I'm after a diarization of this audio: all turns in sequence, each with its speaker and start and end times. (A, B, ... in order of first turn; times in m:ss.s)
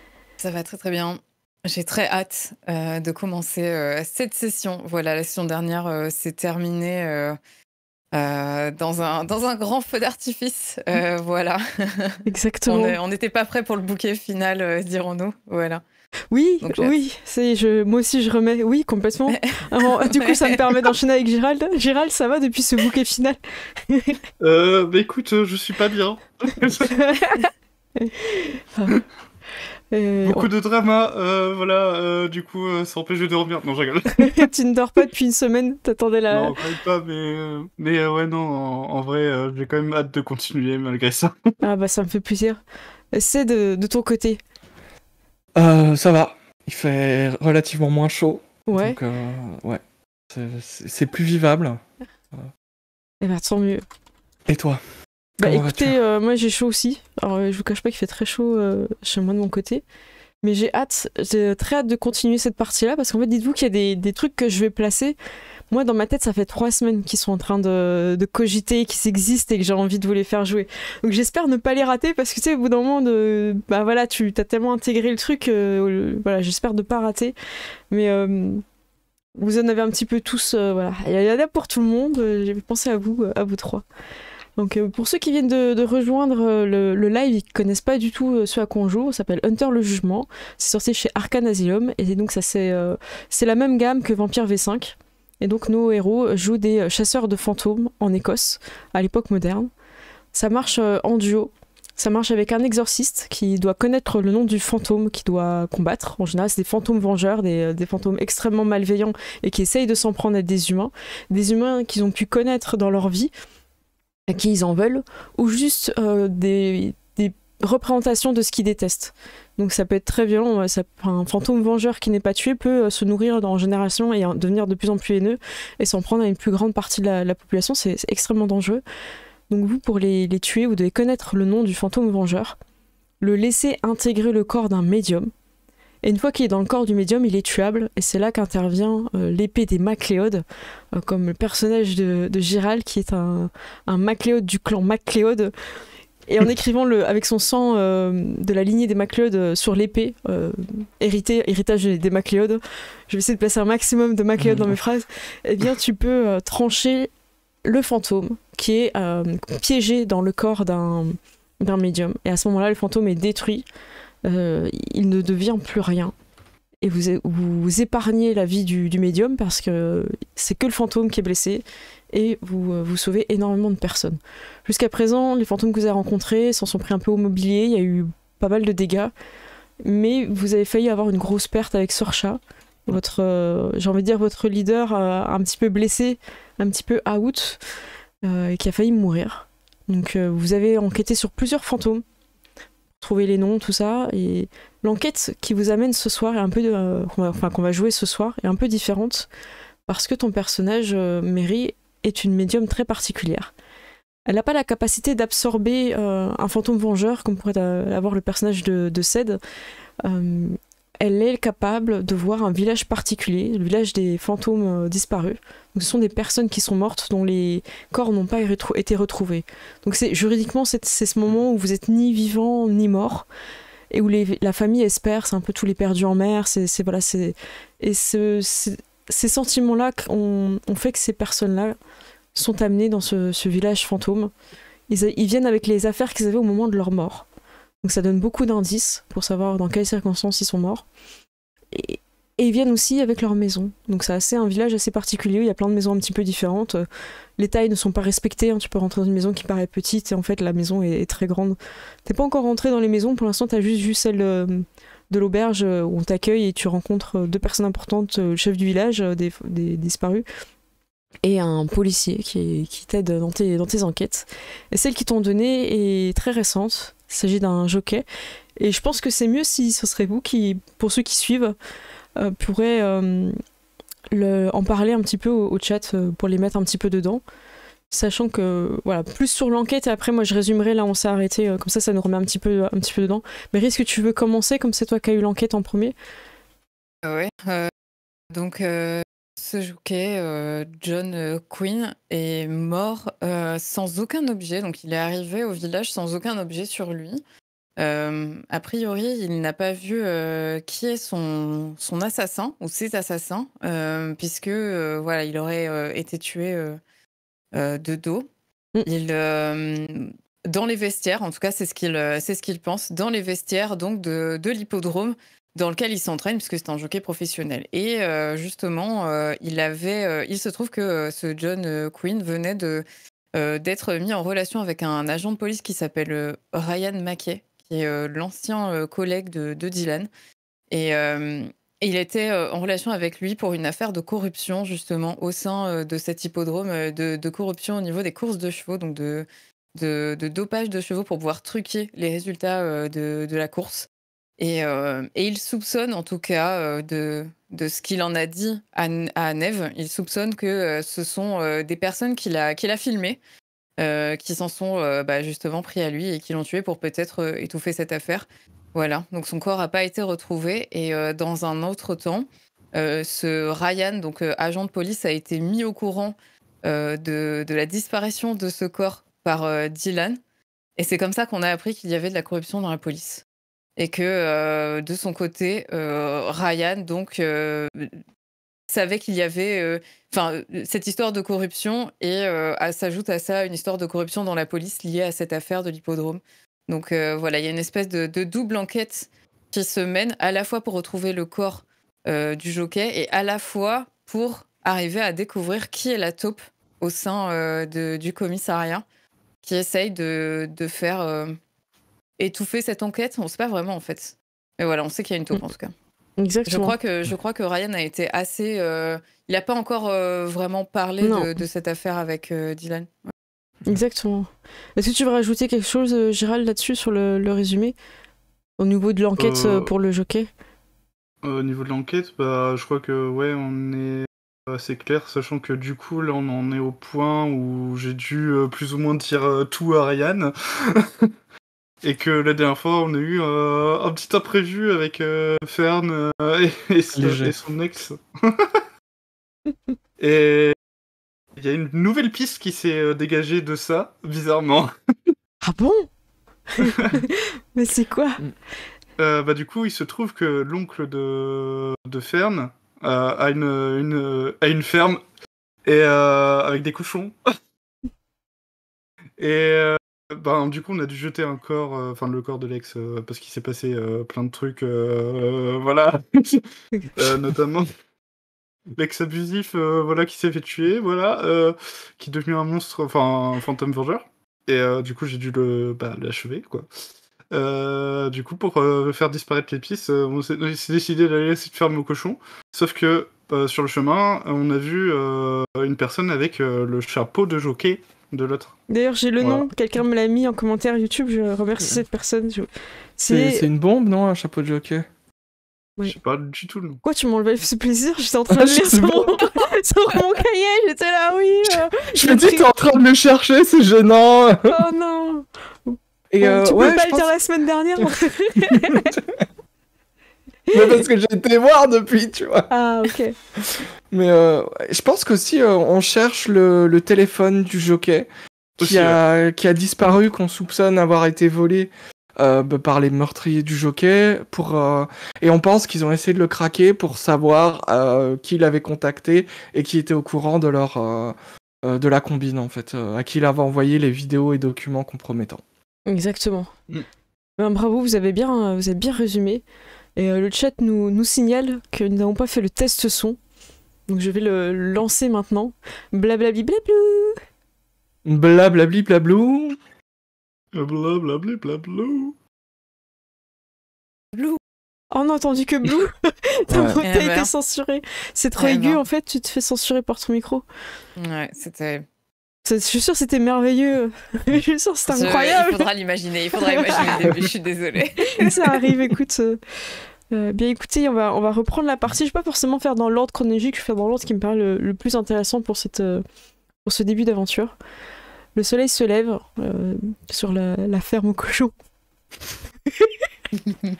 0:00.4-0:07.4 A
0:08.1-0:15.8 A
0:12.2-0:13.0 B
0:16.3-0:24.2 B
0:16.6-0:16.9 A
0:19.3-0:20.6 A
0:24.4-0:26.9 C
0:26.9-0:28.9 B
0:29.9-0:30.5 B
0:30.2-0:34.5 C
0:34.2-0:36.5 B
0:36.3-0:41.5 C
0:41.6-0:42.6 B
0:43.1-0:44.4 B
0:45.6-0:51.8 D
0:48.7-0:49.0 B
0:53.2-0:53.8 B
0:54.5-0:54.8 D
0:55.4-0:56.0 D
0:55.4-0:59.8 B
1:00.4-1:05.2 B
1:05.7-1:17.3 B
1:17.9-1:18.6 B
1:19.4-1:23.8 B
1:24.6-1:39.7 B
1:40.3-1:53.3 B
1:54.3-2:08.8 B
2:09.5-2:12.6 B
2:13.2-2:15.3 B
2:16.0-2:25.5 B
2:26.3-2:37.1 B
2:34.4-2:34.7 D
2:37.6-2:43.6 B
2:44.2-2:46.1 B
2:46.8-2:59.1 B
2:59.8-3:07.6 B
3:08.2-3:12.0 B
3:13.0-3:19.3 B
3:19.9-3:23.5 B
3:24.3-3:29.4 B
3:30.0-3:43.3 B
3:43.9-3:51.8 B
3:52.3-3:54.3 B
3:54.9-3:57.2 B
3:57.8-4:00.8 B
4:01.7-4:06.8 B
4:07.4-4:20.2 B
4:21.2-4:28.0 B
4:28.6-4:31.5 B
4:32.2-4:33.4 B
4:34.1-4:37.2 B
4:37.9-4:45.9 B
4:47.0-4:47.7 A
4:48.3-4:57.2 A
4:57.8-5:06.8 A
5:07.5-5:08.3 A
5:08.8-5:30.1 A
5:30.7-5:53.2 A
5:53.8-6:10.2 A
6:10.8-6:13.2 A
6:13.8-6:18.0 A
6:18.7-6:38.8 A
6:39.4-6:41.4 A
6:42.2-6:45.7 A
6:46.2-6:46.7 B
6:46.4-6:53.1 A
6:51.0-6:51.3 B
6:53.6-6:57.8 B
6:58.6-7:00.3 B
6:59.2-6:59.7 C
7:01.2-7:11.1 C
7:11.8-7:18.6 C
7:16.9-7:17.3 D
7:20.0-7:20.5 C
7:21.4-7:25.1 C
7:25.4-7:25.9 B
7:26.5-7:28.2 B
7:26.6-7:26.9 C
7:29.0-7:35.0 C
7:35.6-7:37.2 C
7:39.2-7:46.4 C
7:47.0-7:47.7 C
7:48.8-7:56.7 C
7:57.3-8:08.5 C
8:08.7-8:13.4 B
8:09.2-8:09.4 C
8:13.1-8:14.8 D
8:15.8-8:16.8 C
8:16.8-8:22.5 B
8:18.3-8:19.3 D
8:21.9-8:24.6 D
8:24.5-8:28.9 B
8:26.1-8:27.1 D
8:28.4-8:29.2 D
8:30.5-8:30.8 B
8:30.5-8:32.5 D
8:32.5-8:33.2 B
8:33.9-8:55.4 D
8:38.6-8:39.0 C
8:55.8-8:56.5 B
8:57.4-8:59.4 B
9:00.0-9:03.2 B
9:03.9-9:07.2 B
9:08.0-9:09.6 D
9:10.5-9:12.1 C
9:14.1-9:14.4 A
9:14.9-9:20.4 B
9:16.5-9:16.8 D
9:16.8-9:17.3 A
9:18.4-9:18.8 A
9:21.0-9:21.8 A
9:22.4-9:25.7 B
9:24.9-9:28.5 A
9:26.4-9:27.0 B
9:28.1-9:36.0 B
9:36.6-9:37.6 B
9:38.3-9:41.5 B